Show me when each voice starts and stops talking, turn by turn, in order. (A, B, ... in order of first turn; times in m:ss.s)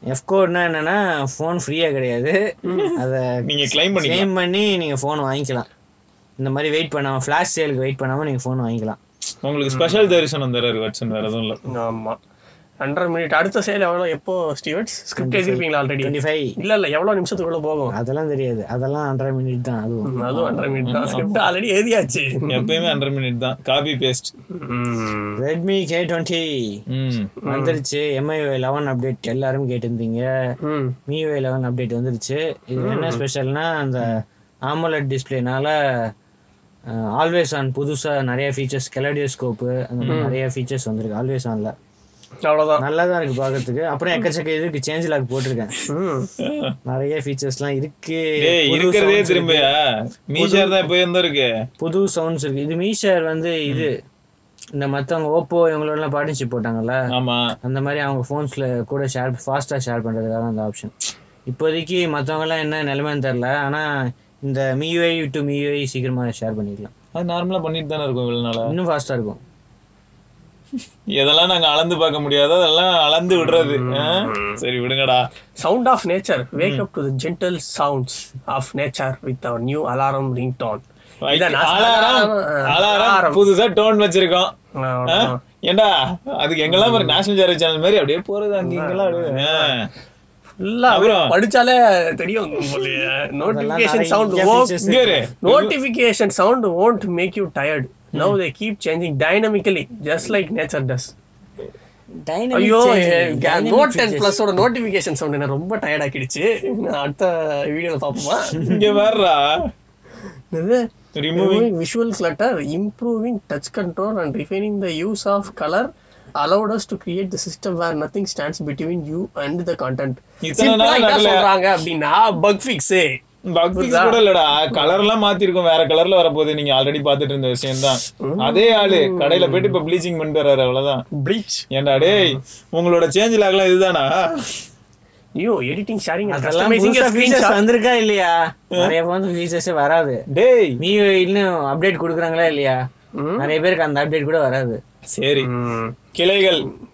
0:00.1-0:02.4 A
0:02.8-0:04.3 B
0:02.9-0:03.3 A
0:03.9-0:05.7 A
0:06.4-0:09.0 A
0:09.4-0:11.6 B
0:09.7-0:10.1 C
0:11.7-0:12.2 C
0:12.8-0:17.9 C
0:15.1-0:16.5 A
0:17.9-0:20.7 A
0:20.1-0:22.7 C
0:20.8-0:21.4 B
0:22.5-0:24.3 B
0:24.5-0:25.4 C
0:25.4-0:26.8 A
0:26.9-0:27.3 B
0:27.4-0:27.8 C
0:27.5-0:30.3 A
0:30.6-0:31.0 C
0:31.1-0:35.7 A
0:32.8-0:33.2 C
0:36.9-0:41.7 A
0:40.0-0:40.3 B
0:40.1-0:40.3 C
0:42.4-0:42.8 C
0:42.8-0:45.7 A
0:45.9-0:46.3 C
0:46.4-0:46.8 B
0:46.8-0:49.7 A
0:48.4-0:49.8 B
0:50.3-0:51.5 B
0:50.4-0:50.8 A
0:51.8-0:53.9 A
0:54.8-0:57.0 A
0:57.1-0:57.4 B
0:57.6-1:00.9 A
1:01.5-1:03.8 A
1:04.4-1:06.9 A
1:07.1-1:08.7 B
1:08.6-1:09.4 A
1:11.2-1:15.2 B
1:13.3-1:14.6 C
1:15.6-1:23.4 C
1:21.2-1:24.5 B
1:24.8-1:25.4 C
1:25.1-1:29.9 B
1:26.7-1:27.2 C
1:28.6-1:29.7 C
1:30.6-1:41.1 C
1:30.9-1:31.3 B
1:33.4-1:35.3 A
1:34.8-1:35.7 B
1:42.2-1:44.4 A
1:42.5-1:48.6 C
1:48.6-1:49.5 B
1:50.5-1:50.8 C
1:51.2-1:51.7 B
1:51.3-2:03.1 C
2:00.4-2:01.5 B
2:03.5-2:11.0 B
2:03.7-2:04.9 C
2:08.1-2:09.8 C
2:11.2-2:12.4 C
2:11.7-2:14.5 B
2:15.4-2:17.6 C
2:16.3-2:20.2 A
2:20.3-2:20.8 B
2:20.8-2:22.8 A
2:23.2-2:23.5 C
2:23.4-2:24.8 A
2:25.1-2:25.5 B
2:25.4-2:26.0 C
2:26.1-2:26.6 B